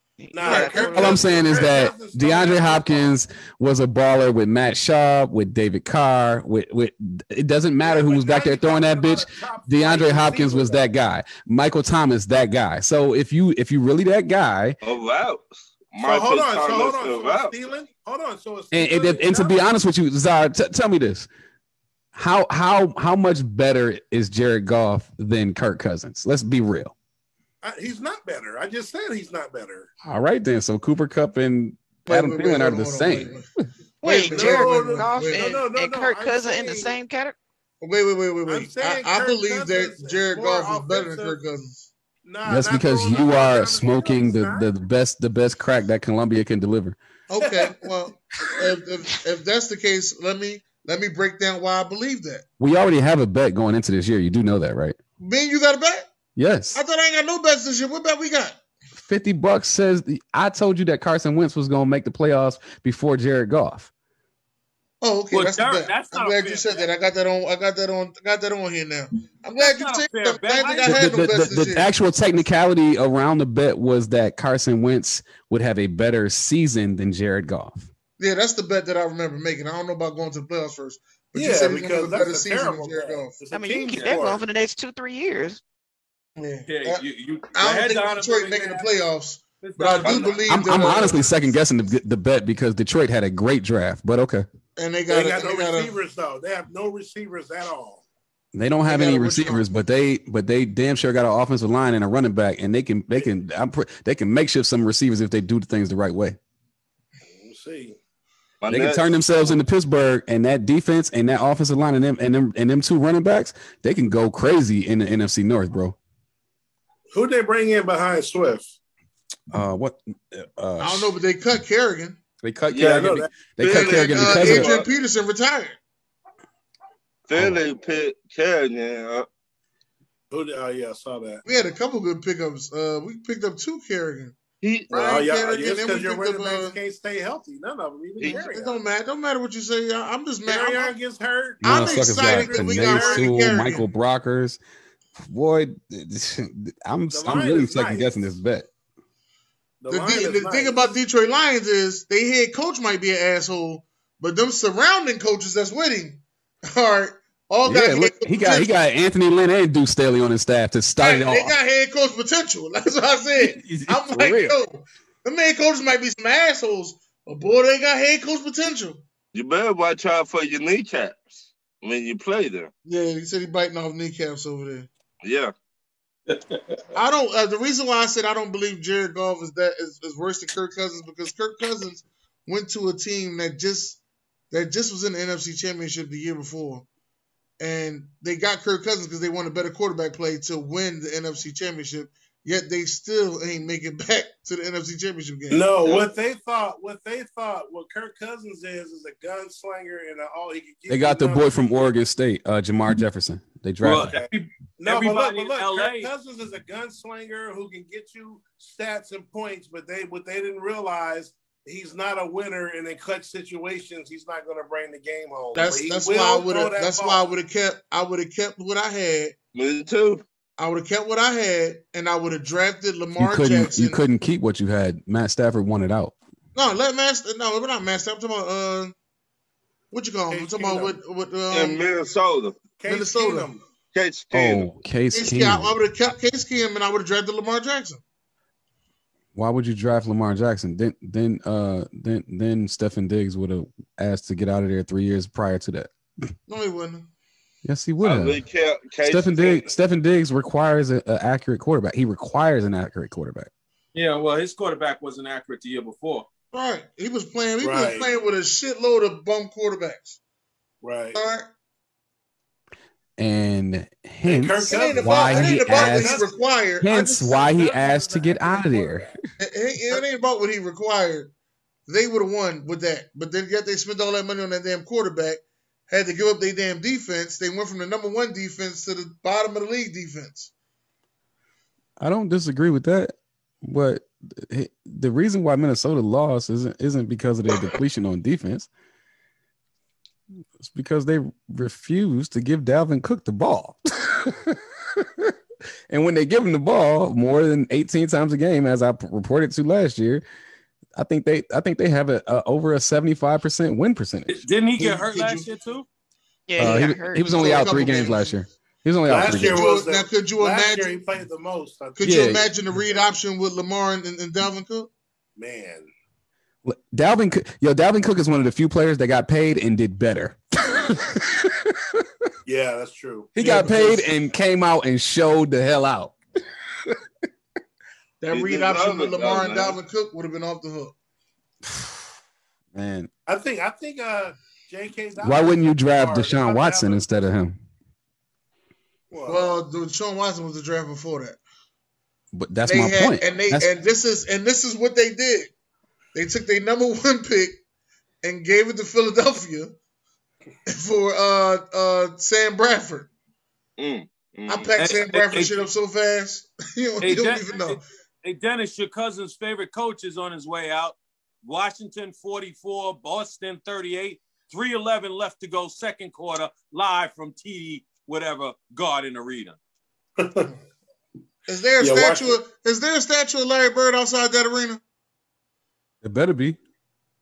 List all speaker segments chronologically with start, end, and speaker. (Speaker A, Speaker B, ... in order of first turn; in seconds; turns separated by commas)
Speaker A: 0.2-1.2, Speaker B: 0.3-3.2, Speaker C: 0.4-0.9, Speaker D: 0.9-14.8, Speaker B: 7.8-10.9, Speaker E: 14.8-17.5, Speaker B: 16.0-19.6, Speaker D: 18.7-21.3, Speaker D: 22.1-26.9, Speaker B: 27.6-29.9, Speaker D: 30.1-33.4, Speaker C: 32.1-33.5, Speaker C: 34.0-35.6, Speaker A: 34.0-37.4, Speaker B: 34.3-37.0, Speaker C: 37.8-41.9, Speaker B: 38.5-41.4, Speaker B: 42.2-44.7, Speaker D: 42.4-47.0, Speaker C: 47.3-52.5, Speaker B: 47.4-47.9, Speaker D: 52.6-55.0, Speaker C: 55.2-56.1, Speaker D: 56.4-56.8, Speaker C: 56.7-58.6, Speaker D: 59.0-63.9, Speaker C: 65.0-71.9, Speaker F: 65.3-66.9, Speaker F: 69.6-71.4, Speaker D: 70.8-77.9, Speaker C: 78.2-83.4, Speaker B: 81.3-84.4, Speaker A: 83.5-85.6, Speaker C: 86.4-91.3, Speaker F: 86.7-88.9, Speaker F: 89.6-91.2, Speaker E: 90.0-90.5, Speaker D: 90.5-94.5, Speaker C: 94.8-95.9, Speaker B: 95.1-98.0, Speaker D: 98.5-106.4, Speaker C: 98.8-99.7, Speaker B: 107.2-108.0, Speaker E: 108.6-109.2, Speaker D: 108.7-116.0, Speaker B: 117.1-118.8, Speaker D: 119.5-121.1, Speaker C: 120.8-122.2, Speaker D: 122.4-124.7, Speaker E: 122.7-124.8, Speaker B: 122.8-124.8, Speaker C: 123.8-125.8, Speaker E: 127.3-129.3, Speaker D: 127.4-127.6, Speaker B: 130.3-131.4, Speaker C: 131.4-134.4, Speaker E: 134.6-135.3, Speaker C: 134.9-136.8, Speaker B: 134.9-138.8, Speaker E: 138.2-138.4, Speaker C: 138.2-140.9, Speaker B: 140.5-143.3, Speaker D: 141.6-144.6, Speaker C: 141.6-143.9, Speaker D: 145.2-148.7, Speaker B: 147.1-148.3, Speaker B: 149.8-150.9, Speaker C: 149.9-158.7, Speaker D: 157.6-161.6, Speaker C: 161.0-169.0, Speaker D: 163.5-164.5, Speaker E: 169.3-172.7, Speaker C: 172.8-174.9, Speaker E: 175.2-175.5, Speaker F: 176.3-176.6, Speaker C: 176.9-184.0, Speaker C: 184.5-186.9, Speaker C: 187.6-195.7, Speaker B: 195.5-201.7, Speaker D: 200.9-204.2, Speaker F: 203.8-206.1, Speaker B: 204.0-204.2, Speaker B: 204.8-217.3, Speaker C: 215.5-219.4, Speaker E: 219.6-220.2, Speaker C: 220.6-224.0, Speaker D: 223.2-226.2, Speaker C: 226.6-228.9, Speaker C: 229.9-231.8, Speaker B: 230.3-231.0, Speaker E: 231.5-232.6, Speaker B: 232.8-233.6, Speaker C: 232.9-233.5, Speaker E: 233.9-234.7, Speaker D: 234.3-235.8, Speaker C: 235.1-238.0, Speaker D: 239.3-245.9, Speaker C: 246.5-247.1, Speaker D: 247.6-248.4, Speaker E: 248.0-249.7, Speaker D: 249.1-253.5, Speaker F: 253.9-256.3, Speaker C: 256.5-260.2, Speaker B: 257.6-258.1, Speaker B: 260.8-261.2, Speaker C: 261.1-261.5, Speaker D: 263.2-266.2, Speaker B: 264.2-266.4, Speaker C: 264.6-267.4, Speaker D: 266.8-269.2, Speaker B: 267.3-269.1, Speaker C: 269.4-271.3, Speaker C: 271.9-280.5, Speaker D: 282.0-288.7, Speaker D: 290.6-295.3, Speaker D: 295.9-300.2, Speaker D: 300.9-305.0, Speaker F: 304.3-305.9, Speaker C: 304.8-305.5, Speaker A: 306.5-307.6, Speaker D: 306.6-309.7, Speaker C: 306.6-308.4, Speaker B: 309.1-312.4, Speaker C: 309.3-310.9, Speaker C: 312.0-314.9, Speaker D: 312.0-312.4, Speaker B: 315.4-315.9, Speaker D: 316.7-321.7, Speaker B: 322.4-323.4, Speaker D: 323.4-326.2, Speaker C: 323.4-324.1, Speaker C: 328.2-330.9, Speaker E: 328.3-329.8, Speaker D: 331.7-331.9, Speaker D: 332.7-333.1, Speaker B: 333.3-337.0, Speaker D: 335.2-337.6, Speaker B: 339.1-339.5, Speaker C: 339.3-341.4, Speaker D: 342.3-343.7, Speaker C: 342.6-345.5, Speaker C: 346.1-347.6, Speaker C: 348.2-349.8, Speaker C: 350.7-353.1, Speaker E: 353.8-354.7, Speaker C: 354.5-357.8, Speaker F: 354.8-355.5, Speaker F: 357.0-369.6, Speaker B: 370.2-370.5, Speaker C: 371.5-374.8, Speaker B: 371.8-372.4, Speaker D: 376.0-376.6